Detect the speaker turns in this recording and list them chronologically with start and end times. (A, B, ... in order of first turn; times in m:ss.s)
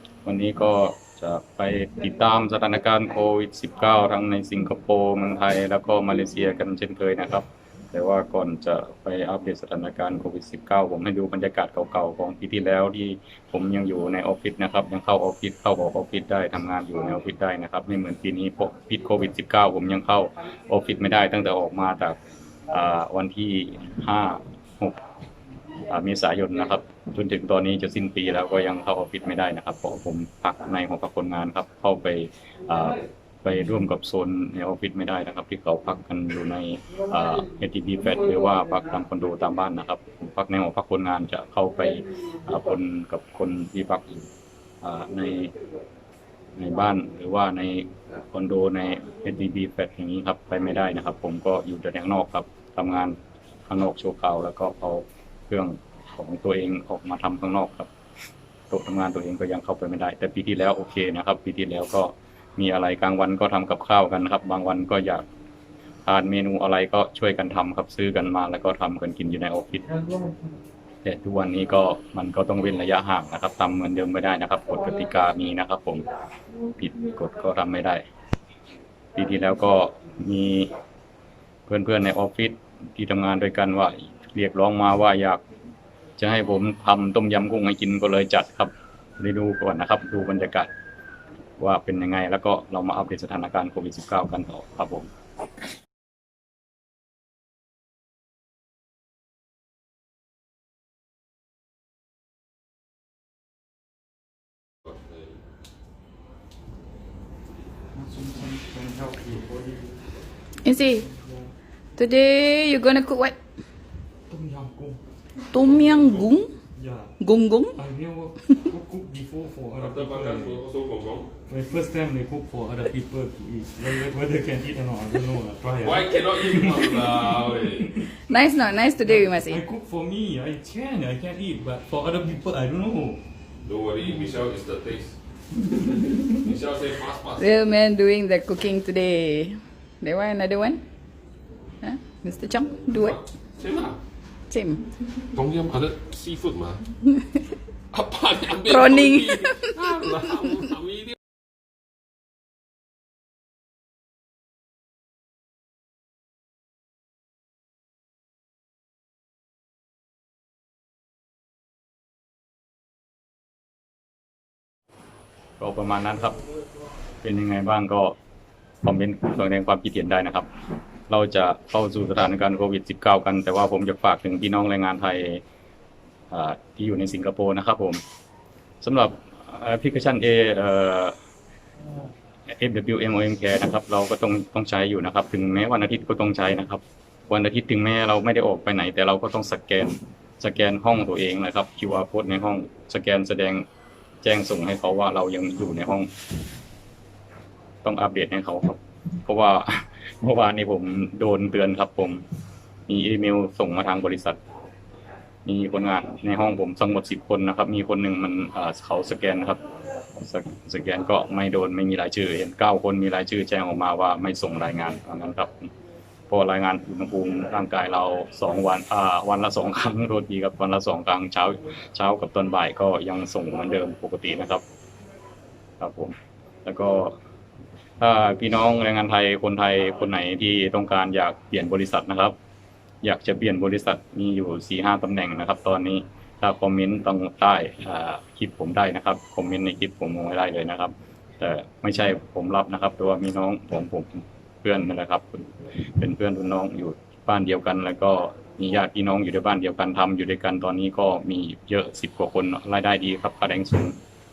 0:00.2-0:22.2 A
0:22.7-0:25.0 A
0:25.9-0:44.2 A
0:44.8-0:45.5 A
0:46.6-0:53.2 A
0:53.7-0:57.9 A
0:58.7-1:05.2 A
1:06.0-1:09.9 A
1:11.0-1:16.0 A
1:16.7-1:18.0 A
1:19.1-1:20.7 A
1:21.7-1:25.4 A
1:26.2-1:30.7 A
1:31.6-1:35.1 A
1:44.8-1:45.3 B
1:48.0-1:49.9 C
1:50.6-1:51.0 D
1:51.0-1:51.4 C
1:52.0-1:53.4 D
1:54.3-1:55.0 C
1:55.5-1:56.5 D
1:55.8-1:56.3 B
1:56.8-1:57.1 C
1:57.2-1:57.8 D
1:57.8-2:00.6 C
1:59.8-2:01.3 B
2:01.5-2:07.1 C
2:05.8-2:08.1 B
2:08.2-2:09.6 D
2:09.3-2:13.2 C
2:13.6-2:15.2 B
2:16.3-2:17.6 B
2:17.4-2:20.8 D
2:21.8-2:23.2 D
2:22.8-2:24.0 B
2:24.5-2:24.8 D
2:25.3-2:26.8 B
2:27.9-2:31.0 B
2:28.6-2:29.8 D
2:45.6-2:46.4 A
2:47.2-2:48.2 A
2:48.8-2:50.5 A
2:51.1-2:55.4 A
2:56.3-2:58.0 A
2:58.8-3:01.2 A
3:02.5-3:13.6 A
3:14.2-3:16.1 A
3:17.8-3:22.2 A
3:22.9-3:24.4 A
3:25.4-3:29.6 A
3:30.2-3:35.7 A
3:36.3-3:44.6 A
3:45.8-3:47.2 A
3:48.0-3:52.3 A
3:53.0-4:14.0 A